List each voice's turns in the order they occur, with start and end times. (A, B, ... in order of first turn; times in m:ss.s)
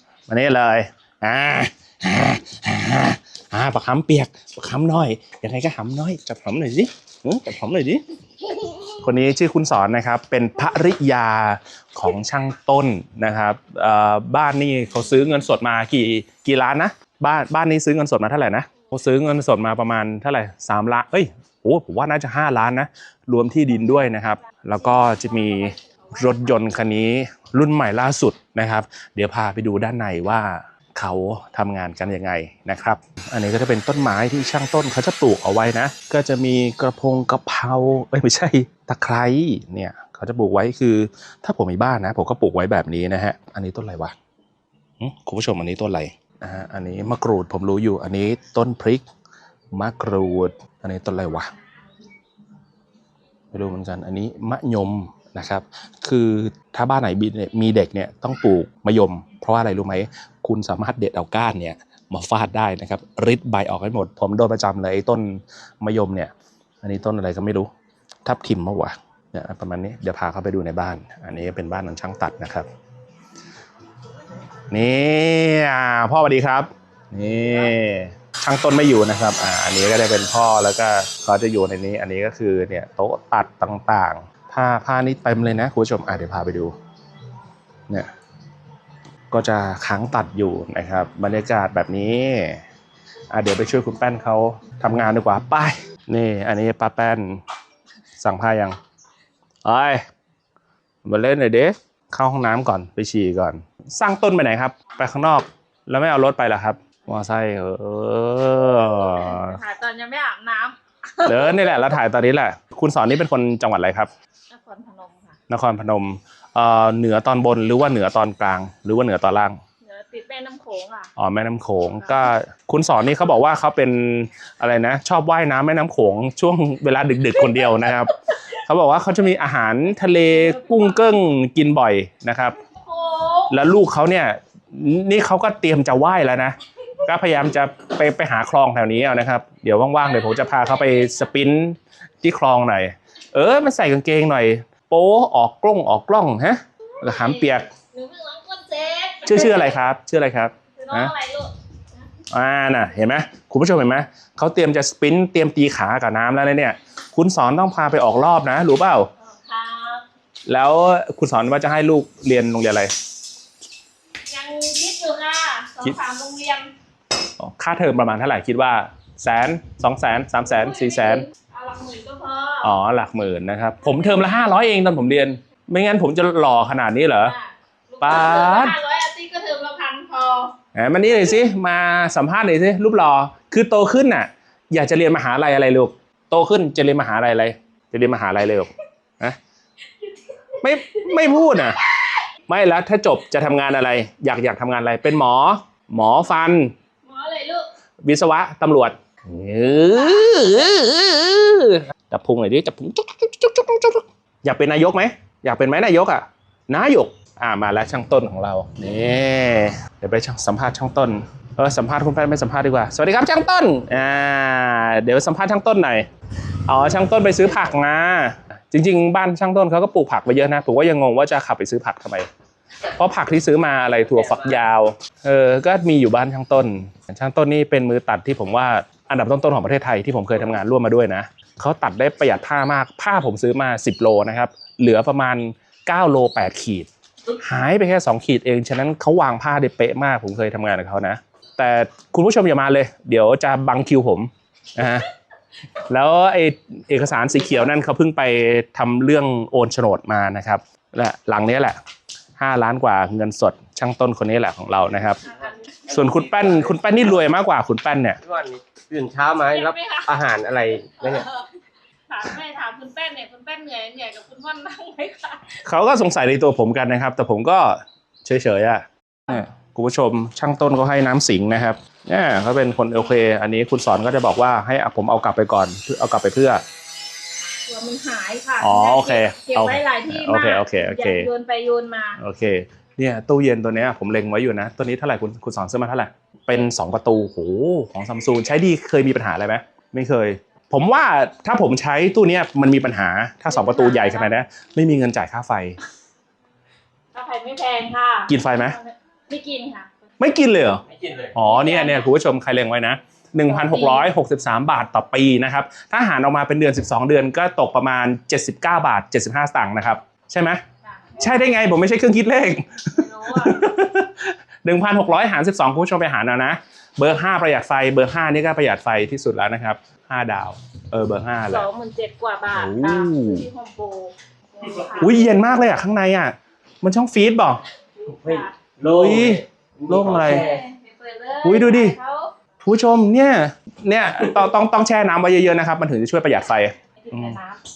0:00.3-0:08.0 A
0:08.9-0:44.2 A
0:25.2-0:25.7 B
0:45.0-0:49.0 A
0:49.7-0:51.5 A
0:53.5-1:07.7 A
1:08.2-1:12.7 A
1:14.7-1:26.8 A
1:29.3-1:32.6 A
1:33.3-1:37.4 A
1:38.2-1:38.8 A
1:39.6-1:40.0 A
1:41.0-1:49.6 A
1:48.9-1:51.7 B
1:51.2-1:54.1 A
1:54.5-1:55.4 B
1:55.5-1:59.6 A
1:59.8-2:01.1 B
2:01.2-2:12.6 A
2:10.4-2:11.0 B
2:12.8-2:13.5 B
2:13.5-2:27.7 A
2:20.0-2:21.3 B
2:27.0-2:29.8 B
2:29.2-2:31.1 A
2:30.8-2:31.5 B
2:32.3-2:39.1 A
2:39.2-2:40.0 B
2:40.5-2:42.9 A
2:44.3-2:46.7 B
2:47.4-2:51.2 A
2:50.4-2:52.7 B
2:52.6-2:57.3 A
2:53.8-2:54.3 B
2:57.2-3:00.6 B
2:58.0-2:58.8 A
3:00.8-3:09.4 A
3:10.6-3:11.8 A
3:11.3-3:11.7 B
3:12.5-3:16.7 A
3:17.1-3:17.7 B
3:18.0-3:36.1 A
3:20.1-3:20.5 B
3:36.7-3:42.3 A
3:43.0-4:05.1 A
4:05.9-4:11.8 A
4:12.4-4:15.2 A
4:15.2-4:15.8 B
4:15.9-4:18.2 A
4:16.3-4:16.6 C
4:18.2-4:21.3 C
4:19.5-4:20.2 B
4:20.8-4:21.5 B
4:22.1-4:25.6 B
4:25.6-4:36.6 A
4:37.7-4:42.2 B
4:38.6-4:41.3 A
4:42.2-4:55.8 A
4:53.5-4:54.4 B
4:57.1-4:59.9 B
4:58.3-4:58.8 A
5:00.2-5:10.6 A
5:01.4-5:02.1 B
5:03.5-5:04.1 B
5:10.8-5:11.5 B
5:11.2-5:21.7 A
5:12.9-5:13.7 B
5:21.5-5:25.5 B
5:22.5-5:23.5 A
5:25.0-5:27.6 A
5:28.1-5:28.5 B
5:28.2-5:30.6 C
5:28.8-5:30.6 A
5:30.2-5:32.3 B
5:31.4-5:32.0 A
5:32.6-5:37.4 A
5:37.0-5:37.6 B